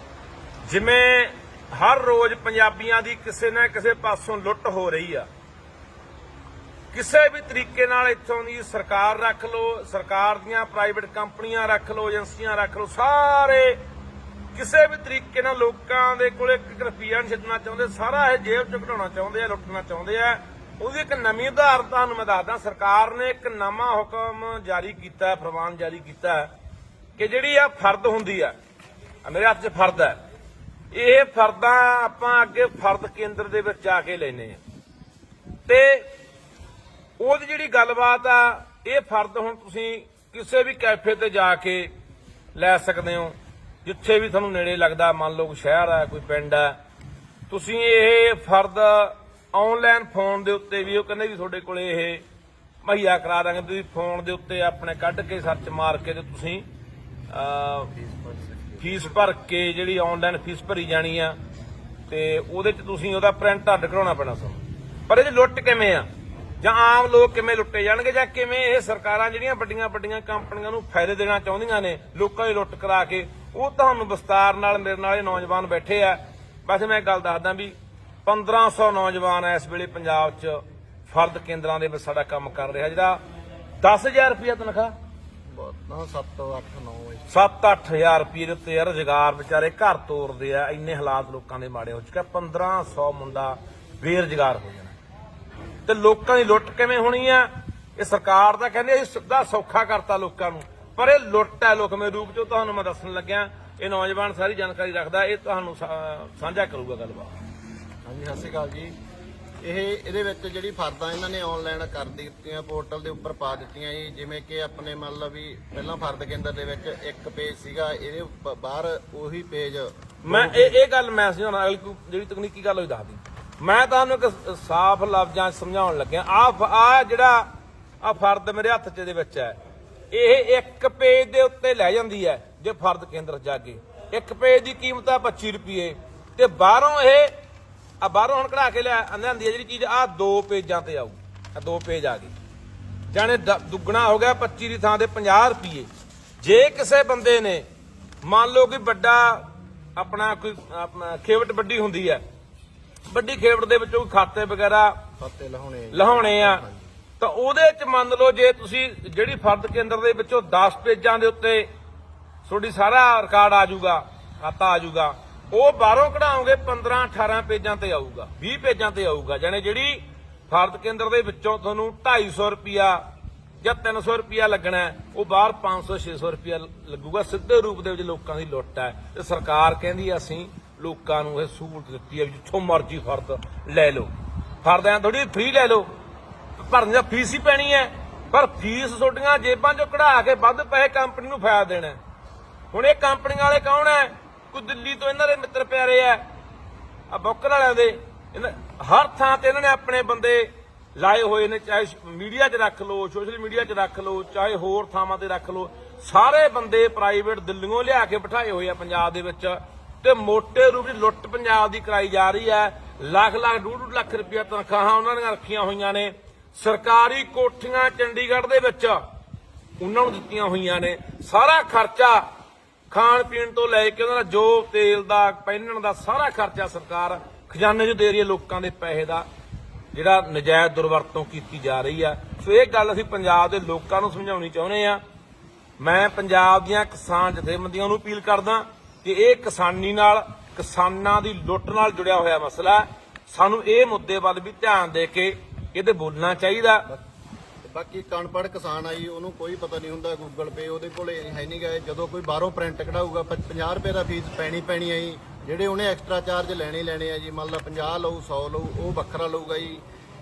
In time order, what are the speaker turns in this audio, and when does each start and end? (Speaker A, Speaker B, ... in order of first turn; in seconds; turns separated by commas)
Speaker A: 0.6-5.3, Speaker A: 6.9-13.8, Speaker A: 14.5-26.5, Speaker A: 27.2-28.5, Speaker A: 29.2-30.2, Speaker A: 30.9-34.6, Speaker A: 35.7-36.1, Speaker A: 37.2-41.9, Speaker A: 42.5-46.8, Speaker A: 47.5-52.2, Speaker A: 52.8-56.6, Speaker A: 57.3-57.9, Speaker B: 57.9-59.2, Speaker A: 58.8-61.4, Speaker A: 62.1-66.1, Speaker A: 66.6-83.2, Speaker A: 83.8-84.9, Speaker B: 85.5-87.3, Speaker A: 87.3-95.0, Speaker A: 95.9-107.3, Speaker B: 108.0-108.9, Speaker B: 109.6-120.8, Speaker A: 120.2-127.5, Speaker A: 128.0-129.6, Speaker A: 130.1-137.3, Speaker A: 138.0-142.3, Speaker A: 143.1-145.9, Speaker A: 146.4-147.7, Speaker A: 148.2-152.2, Speaker A: 153.1-155.0, Speaker B: 155.2-156.9, Speaker A: 155.9-156.6, Speaker A: 157.2-161.7, Speaker A: 162.4-173.0, Speaker A: 173.6-184.1, Speaker A: 184.6-185.9, Speaker A: 186.6-192.0, Speaker A: 192.7-196.2, Speaker A: 197.1-219.0, Speaker A: 219.8-222.3, Speaker A: 222.9-229.3, Speaker A: 229.9-235.0, Speaker A: 235.8-246.8, Speaker B: 247.6-259.8